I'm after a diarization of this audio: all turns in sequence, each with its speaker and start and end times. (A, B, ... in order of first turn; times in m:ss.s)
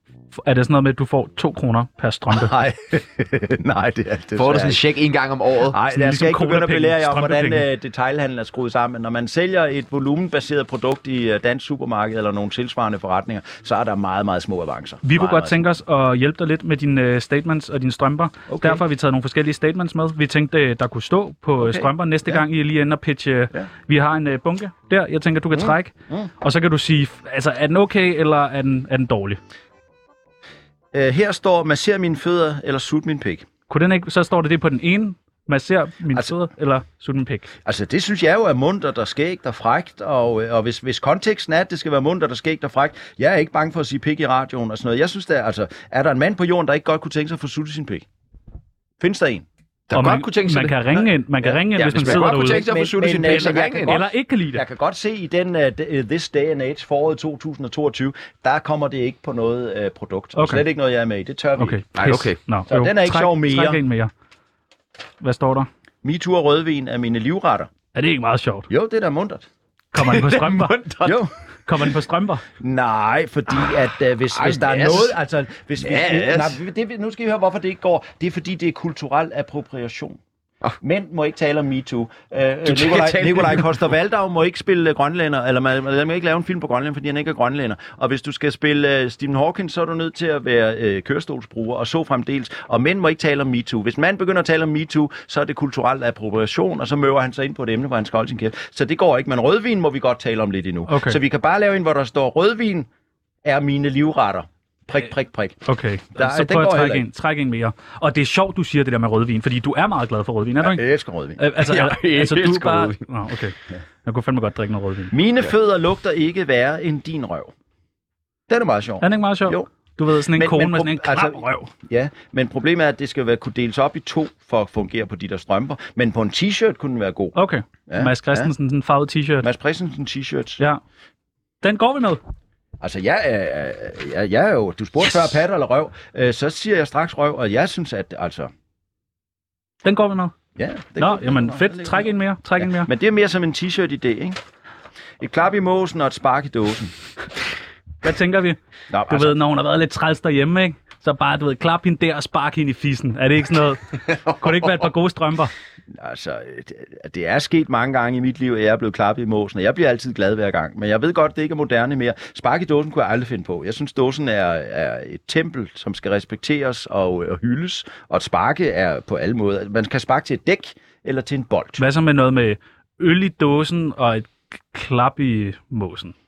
0:00.4-0:02.6 A
0:02.3-0:04.8 B
0:04.4-0:05.8 C
0:05.7-0:15.7 B
0:05.9-0:07.7 A
0:15.0-0:29.4 A
0:18.5-0:18.8 B
0:21.6-0:22.4 B
0:25.5-0:26.3 B
0:30.9-0:33.5 B
0:33.7-0:37.5 A
0:37.6-0:48.1 B
0:49.0-0:49.5 B
0:49.9-0:51.1 C
0:49.9-0:52.7 A
0:51.4-1:01.9 B
0:51.8-0:54.0 C
0:53.3-0:54.6 A
1:00.4-1:00.6 A
1:01.6-1:04.1 A
1:02.0-1:02.4 C
1:02.7-1:03.8 B
1:05.2-1:05.7 A
1:06.0-1:07.7 B
1:07.9-1:08.7 A
1:08.7-1:09.5 B
1:09.9-1:10.9 A
1:10.0-1:11.2 C
1:11.0-1:11.3 B
1:11.7-1:12.4 A
1:12.6-1:20.2 B
1:14.3-1:15.2 C
1:15.8-1:16.6 C
1:20.8-1:42.9 B
1:22.6-1:23.8 C
1:40.9-1:41.2 A
1:43.4-1:45.6 B
1:45.6-1:50.8 A
1:46.1-1:47.1 B
1:50.6-1:51.4 B
1:51.4-1:55.1 A
1:51.6-1:53.1 C
1:55.1-1:57.5 B
1:58.5-1:59.7 B
1:59.0-2:01.7 A
2:00.3-2:08.5 B
2:07.4-2:09.5 A
2:09.4-2:10.6 B
2:11.6-2:12.2 A
2:12.8-2:18.5 B
2:19.8-2:20.4 A
2:20.6-2:24.4 B
2:21.0-2:22.9 A
2:25.2-2:27.0 B
2:28.0-2:35.5 A
2:28.9-2:29.4 B
2:35.9-2:51.8 B
2:51.8-2:56.2 A